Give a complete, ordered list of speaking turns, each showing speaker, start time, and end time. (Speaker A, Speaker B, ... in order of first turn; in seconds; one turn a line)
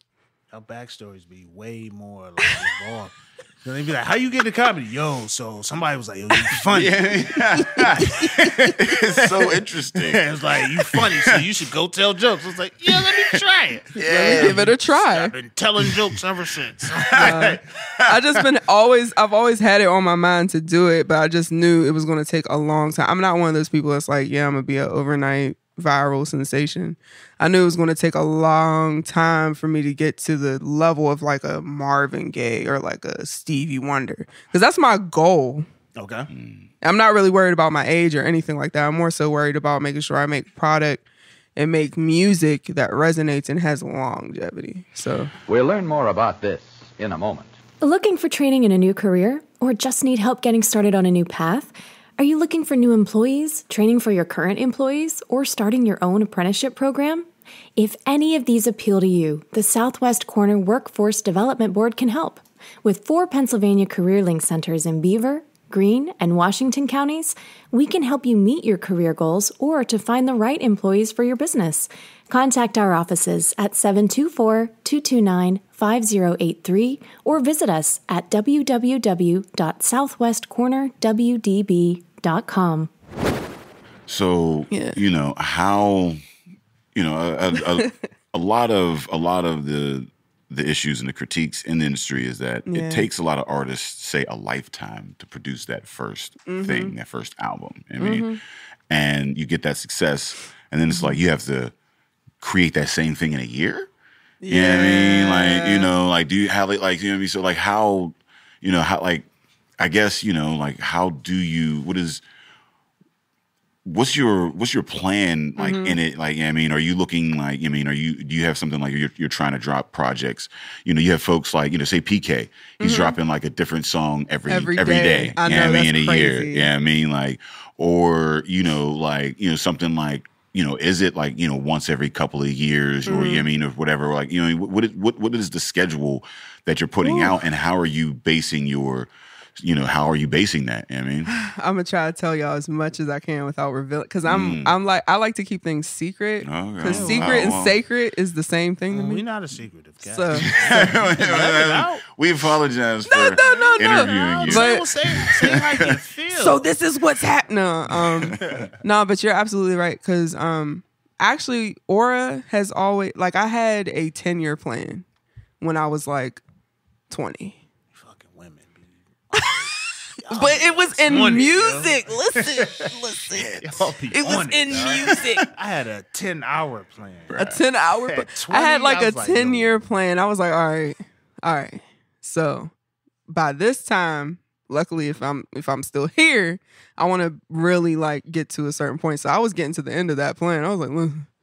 Speaker A: 0.5-7.1
Speaker B: 6.6-11.4
Speaker C: 7.7-8.3
Speaker A: 8.6-17.6
Speaker B: 12.9-13.4
Speaker B: 13.9-14.7
Speaker C: 14.0-15.3
Speaker B: 15.8-16.1
Speaker B: 17.1-17.4
Speaker C: 17.2-35.6
Speaker A: 36.0-36.3
Speaker B: 36.3-36.7
Speaker C: 36.8-41.0
Speaker C: 41.5-45.3
Speaker D: 45.5-47.5
Speaker E: 47.8-82.9
Speaker B: 84.1-86.2
Speaker C: 84.7-85.0
Speaker B: 86.9-98.3
Speaker C: 87.5-88.0
Speaker C: 92.7-93.1
Speaker C: 96.5-96.9
Speaker C: 98.0-98.4
Speaker B: 98.9-101.7
Speaker C: 100.9-101.2
Speaker B: 102.4-103.9
Speaker C: 104.4-105.9
Speaker B: 104.5-109.3
Speaker B: 109.8-112.2
Speaker B: 113.8-141.3
Speaker C: 115.6-116.0
Speaker C: 122.8-123.2
Speaker C: 124.5-126.7
Speaker C: 133.1-133.4
Speaker C: 137.0-137.4
Speaker C: 141.4-149.2
Speaker B: 144.2-144.8
Speaker B: 146.4-147.8
Speaker A: 146.8-147.6
Speaker A: 148.9-152.0
Speaker C: 150.0-150.5
Speaker B: 150.3-155.9
Speaker C: 153.1-154.8
Speaker A: 153.4-156.6
Speaker C: 156.3-165.0
Speaker B: 157.9-158.7
Speaker A: 158.4-158.7
Speaker C: 165.6-166.4
Speaker C: 167.1-167.6
Speaker A: 167.9-172.9
Speaker C: 170.3-173.5
Speaker B: 173.1-173.7
Speaker A: 173.6-177.4
Speaker C: 174.1-175.4
Speaker B: 174.8-175.4
Speaker B: 177.3-177.6
Speaker C: 177.4-182.7
Speaker A: 178.0-179.8
Speaker C: 183.3-191.3